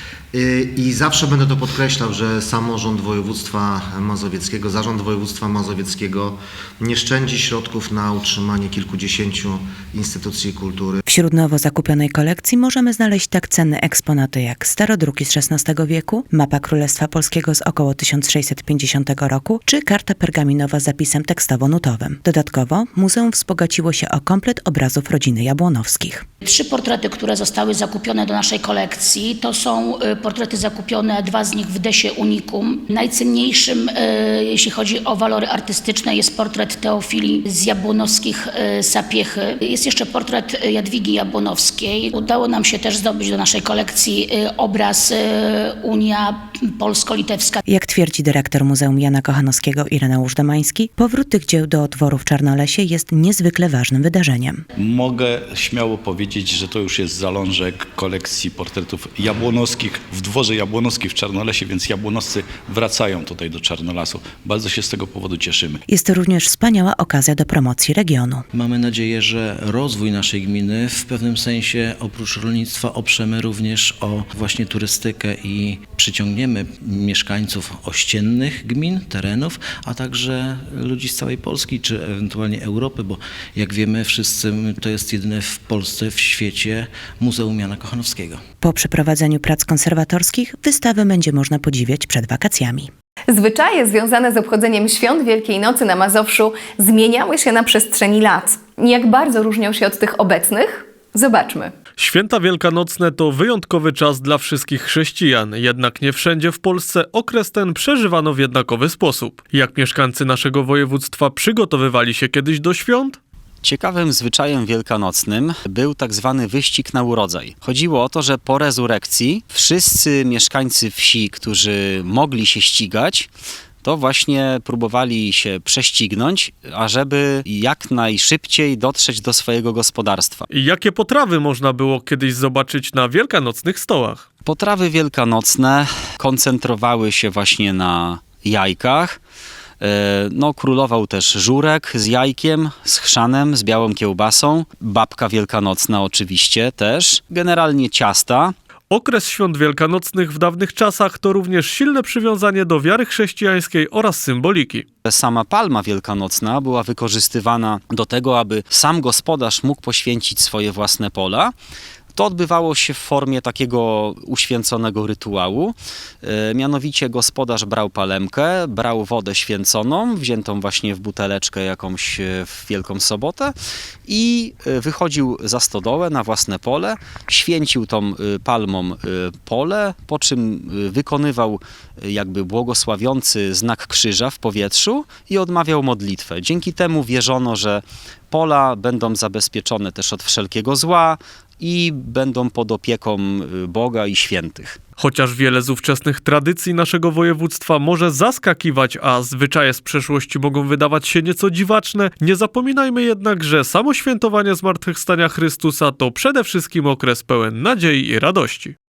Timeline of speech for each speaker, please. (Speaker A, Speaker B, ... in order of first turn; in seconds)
Speaker A: 0.3-11.0
Speaker B: 11.1-26.3, 47.7-54.6, 65.9-68.4, 88.6-92.9
Speaker C: 26.4-47.6
Speaker D: 54.8-65.8
Speaker E: 68.5-88.4
Speaker F: 93.3-101.7
Speaker G: 102.0-113.2, 130.5-134.2, 148.9-154.9, 195.0-208.8
Speaker H: 113.6-123.3, 123.8-130.5, 134.5-139.2, 139.8-148.5, 155.1-161.5, 162.2-173.5, 174.1-194.8